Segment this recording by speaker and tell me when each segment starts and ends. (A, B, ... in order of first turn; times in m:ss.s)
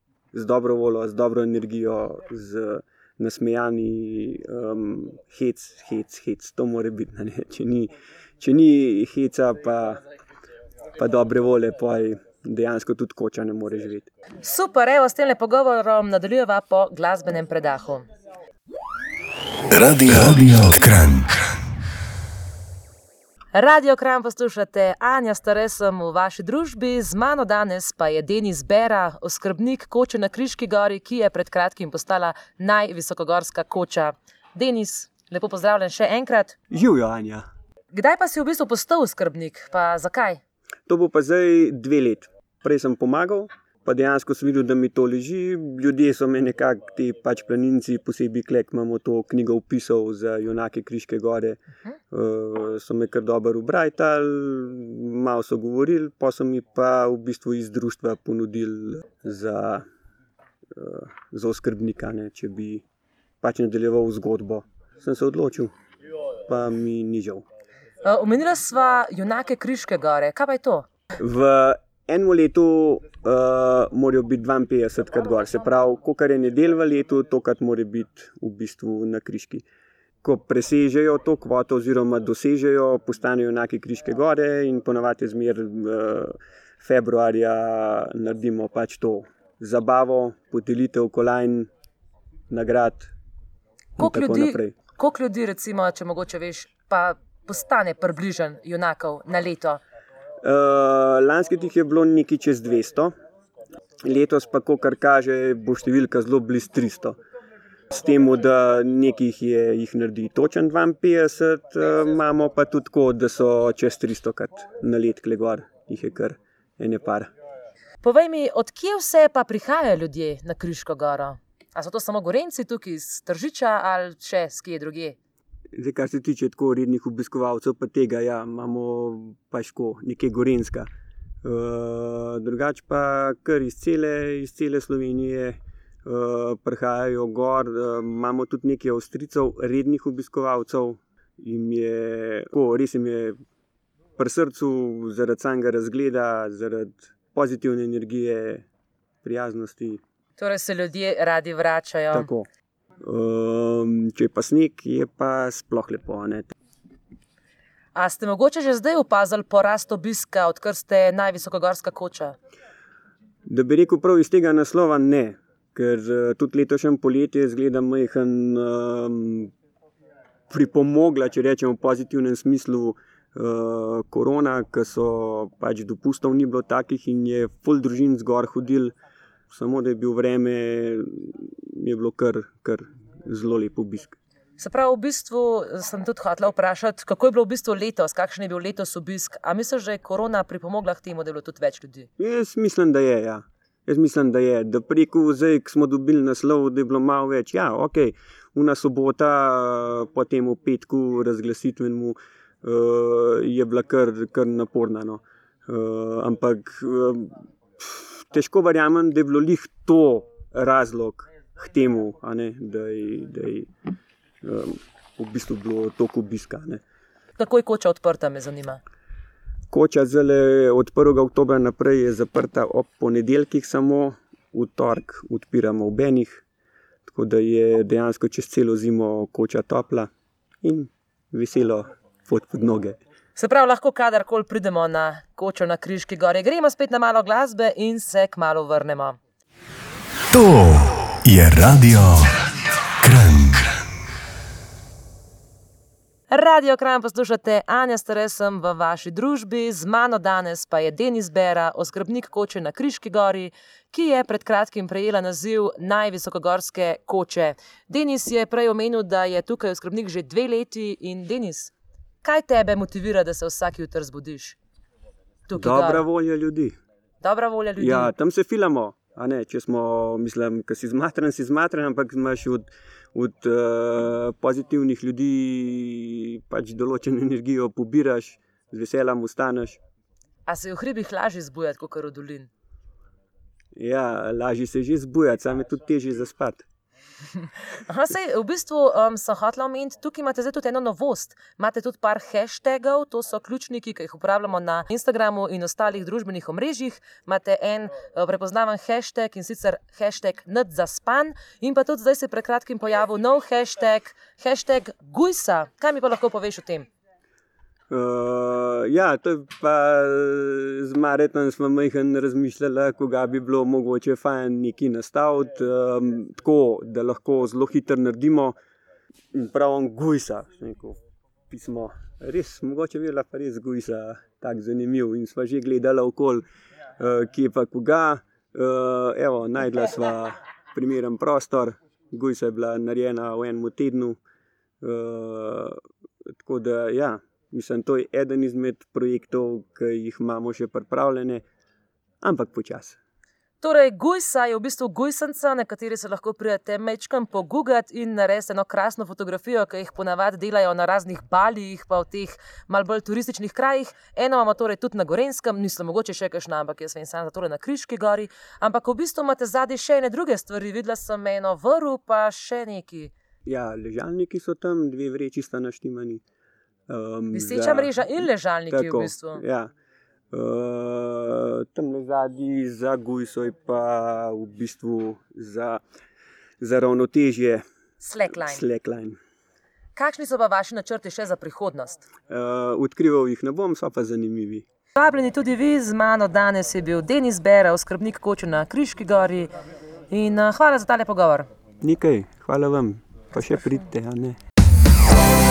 0:00.3-0:10.0 A
0:11.0-0:14.1 A
0:14.4-0:18.1 B
0:19.7-0:21.4 C
0:23.5-0:36.6 B
0:36.7-0:37.4 A
0:37.9-0:40.4 B
0:40.9-0:59.8 A
1:00.7-1:02.8 A
1:03.4-1:05.7 A
1:06.5-1:07.4 A
1:08.0-1:10.9 B
1:11.2-1:19.6 A
1:20.2-1:31.7 A
1:32.5-1:33.1 A
1:34.0-1:34.8 A
1:34.0-1:39.8 B
1:40.4-1:43.1 A
1:44.0-1:47.2 A
1:47.9-1:57.3 A
1:58.0-2:05.2 B
2:05.8-2:10.9 A
2:11.4-2:23.4 A
2:24.2-2:28.7 A
2:29.2-2:30.0 A
2:30.4-2:32.3 B
2:32.1-2:32.5 A
2:33.0-2:36.5 A
2:37.9-2:42.4 B
2:43.5-2:49.5 A
2:50.5-2:59.0 A
2:59.5-3:04.2 A
3:04.6-3:12.1 B
3:12.2-3:33.7 A
3:34.4-3:36.8 A
3:37.4-3:38.8 B
3:39.7-3:46.4 A
3:47.1-3:50.1 A
3:50.6-3:53.0 A
3:53.4-3:59.2 B
4:00.3-4:02.3 C
4:03.0-4:03.6 C
4:06.3-4:24.6 B
4:25.5-4:26.1 B
4:25.6-4:26.8 A
4:27.2-4:28.1 B
4:27.8-4:39.8 A
4:40.5-4:42.5 B
4:43.8-4:46.6 A
4:47.8-5:06.9 B
5:07.9-5:18.6 A
5:19.3-5:21.0 A
5:21.5-5:26.4 A
5:27.0-5:34.2 A
5:34.8-5:35.8 A
5:36.4-5:41.4 A
5:42.2-5:43.0 A
5:43.6-6:03.1 B
6:03.4-6:06.2 A
6:06.9-6:09.7 A
6:07.3-6:09.4 B
6:10.3-6:15.8 A
6:16.6-6:17.6 A
6:18.0-6:18.6 B
6:18.3-6:19.2 A
6:20.0-6:22.1 B
6:22.3-6:24.6 A
6:25.0-6:29.5 B
6:30.1-6:31.5 B
6:31.8-6:34.4 A